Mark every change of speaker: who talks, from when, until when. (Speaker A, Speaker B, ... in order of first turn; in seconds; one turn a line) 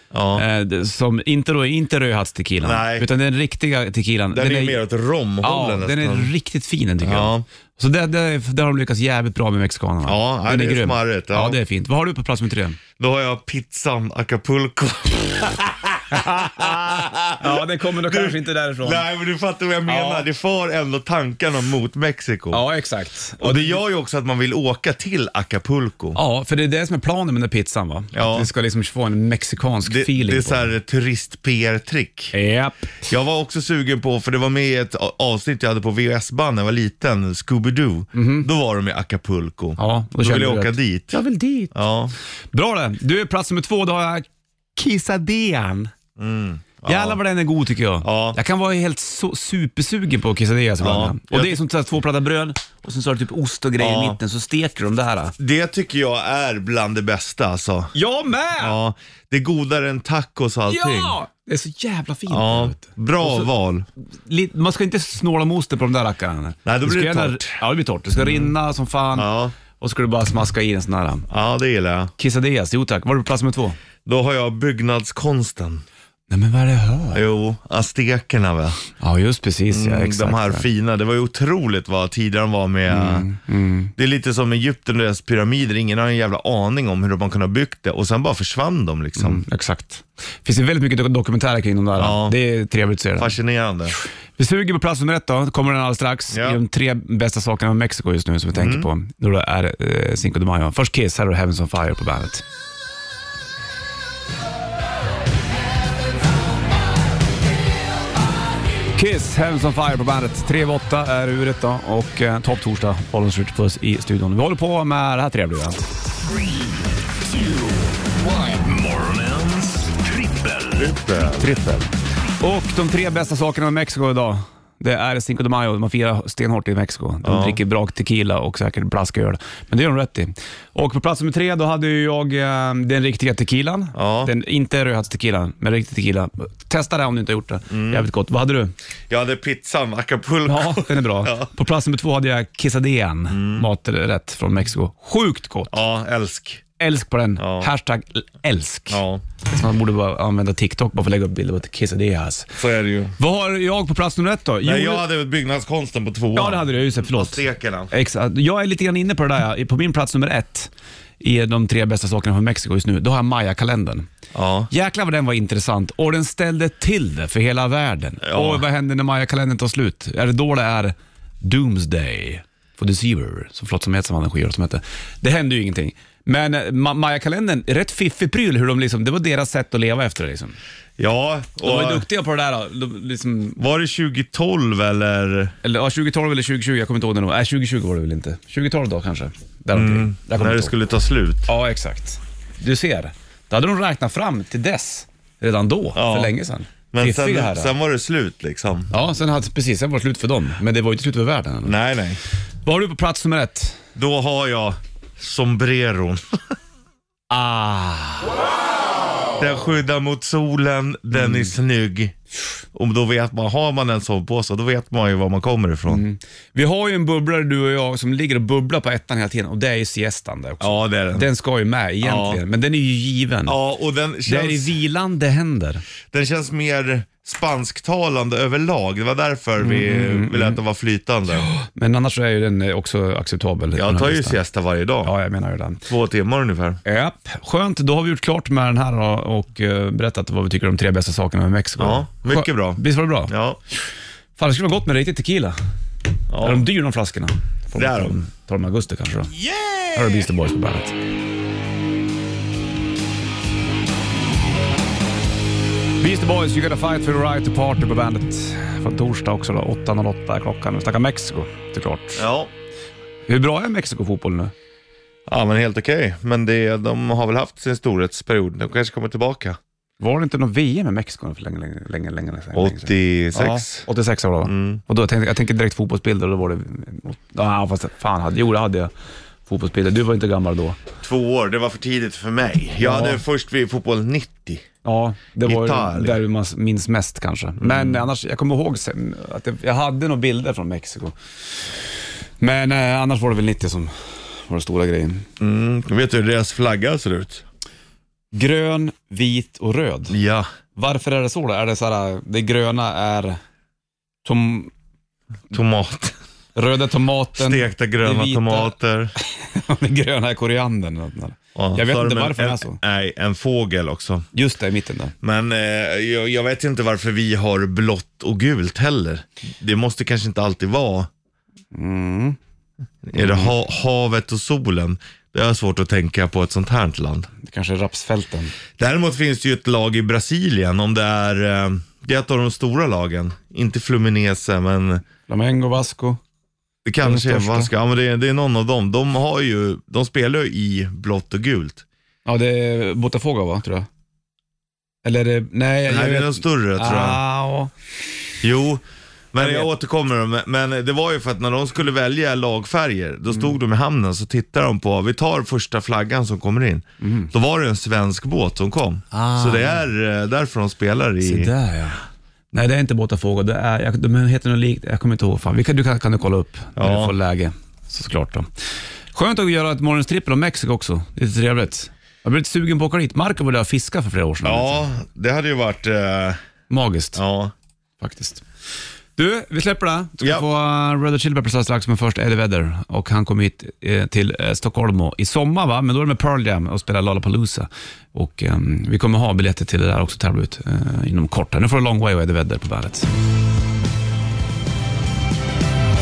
Speaker A: 0.1-0.4
Speaker B: 0.3-4.8
Speaker A: 2.6-3.1
Speaker A: 4.3-6.3
Speaker B: 5.4-12.8
Speaker A: 7.0-7.5
Speaker A: 10.1-11.6
Speaker A: 13.0-22.6
Speaker B: 16.1-19.1
Speaker B: 19.9-20.3
Speaker B: 22.5-23.8
Speaker A: 23.4-26.2
Speaker B: 26.1-30.7
Speaker A: 28.1-28.5
Speaker A: 29.9-32.3
Speaker B: 32.3-32.9
Speaker A: 33.1-41.2
Speaker B: 38.1-38.5
Speaker B: 39.8-41.8
Speaker A: 41.7-42.1
Speaker B: 42.5-45.9
Speaker A: 46.2-47.2
Speaker B: 46.9-55.4
Speaker A: 48.0-48.4
Speaker A: 50.8-51.6
Speaker A: 53.8-54.2
Speaker A: 55.4-57.9
Speaker B: 57.9-58.8
Speaker A: 58.6-61.2
Speaker B: 60.7-63.5
Speaker A: 62.3-63.9
Speaker B: 64.2-71.3
Speaker A: 66.7-67.6
Speaker A: 68.2-68.5
Speaker A: 69.1-69.5
Speaker A: 71.3-72.1
Speaker B: 72.2-73.8
Speaker A: 74.1-75.8
Speaker B: 76.3-77.2
Speaker A: 77.1-78.8
Speaker B: 79.0-80.7
Speaker A: 79.7-83.3
Speaker B: 82.9-83.9
Speaker A: 84.0-89.4
Speaker B: 89.2-93.3
Speaker A: 92.0-92.4
Speaker A: 93.2-94.0
Speaker B: 94.4-102.4
Speaker A: 96.3-96.6
Speaker A: 98.5-98.9
Speaker B: 108.9-115.8
Speaker C: 117.3-120.9
Speaker A: 120.8-121.6
Speaker B: 121.4-138.7
Speaker A: 127.2-127.6
Speaker A: 133.9-134.3
Speaker A: 137.7-138.1
Speaker A: 139.1-141.5
Speaker B: 140.5-145.8
Speaker A: 143.3-143.7
Speaker A: 145.7-146.6
Speaker B: 146.8-152.6
Speaker A: 147.4-147.7
Speaker A: 148.9-149.2
Speaker A: 152.6-153.2
Speaker B: 153.2-155.1
Speaker A: 154.6-157.9
Speaker B: 156.3-164.1
Speaker A: 164.3-164.7
Speaker B: 164.7-180.6
Speaker A: 168.2-168.6
Speaker A: 181.0-182.1
Speaker B: 181.6-183.6
Speaker A: 183.6-185.5
Speaker B: 185.6-190.7
Speaker A: 189.7-191.5
Speaker B: 191.5-197.7
Speaker A: 195.9-196.3
Speaker A: 196.9-198.9
Speaker B: 198.9-201.8
Speaker A: 201.6-202.2
Speaker B: 202.7-203.8
Speaker A: 203.9-206.4
Speaker B: 207.3-208.4
Speaker A: 209.4-212.2
Speaker B: 211.2-211.5
Speaker A: 212.7-216.0
Speaker B: 215.9-223.6
Speaker A: 220.6-221.3
Speaker A: 222.0-222.4
Speaker A: 223.5-224.8
Speaker B: 224.3-225.8
Speaker A: 226.1-231.5
Speaker B: 229.6-230.6
Speaker B: 231.4-234.4
Speaker A: 233.7-235.1
Speaker B: 235.0-235.9
Speaker A: 235.9-236.8
Speaker B: 236.8-243.3
Speaker A: 241.8-243.6
Speaker B: 244.4-245.6
Speaker A: 246.3-246.7
Speaker B: 246.4-249.3
Speaker A: 247.8-248.2
Speaker B: 249.9-250.9
Speaker B: 256.0-262.2
Speaker A: 262.2-262.5
Speaker B: 263.3-264.5
Speaker A: 265.3-269.6
Speaker B: 270.0-278.9
Speaker A: 272.5-273.9
Speaker A: 274.4-274.8
Speaker B: 279.5-280.8
Speaker A: 281.0-284.7
Speaker B: 282.8-283.2
Speaker B: 284.8-291.2
Speaker A: 285.4-286.2
Speaker A: 287.6-288.1
Speaker B: 292.4-295.3
Speaker A: 295.4-297.4
Speaker B: 298.3-300.2
Speaker A: 300.1-300.5
Speaker B: 300.8-303.4
Speaker B: 304.2-304.7
Speaker A: 305.5-306.1
Speaker B: 306.6-312.8
Speaker A: 307.4-309.1
Speaker A: 311.6-314.3
Speaker B: 314.3-315.1
Speaker A: 315.2-321.1
Speaker B: 321.7-322.4
Speaker A: 323.0-327.3
Speaker B: 323.1-323.5
Speaker B: 327.4-328.5
Speaker A: 328.8-335.1
Speaker B: 335.3-336.2
Speaker A: 336.9-341.8
Speaker B: 337.0-337.7
Speaker B: 342.3-343.9
Speaker B: 345.0-347.7
Speaker A: 345.9-347.2
Speaker A: 348.4-361.5
Speaker B: 349.4-349.7
Speaker B: 357.0-357.3
Speaker B: 359.1-359.9
Speaker B: 361.2-362.0
Speaker B: 362.5-368.5
Speaker A: 366.8-367.1
Speaker B: 369.1-374.9
Speaker A: 374.4-376.4
Speaker B: 376.7-377.2
Speaker A: 377.1-377.5
Speaker B: 378.0-378.4
Speaker B: 379.2-393.1
Speaker A: 380.2-380.5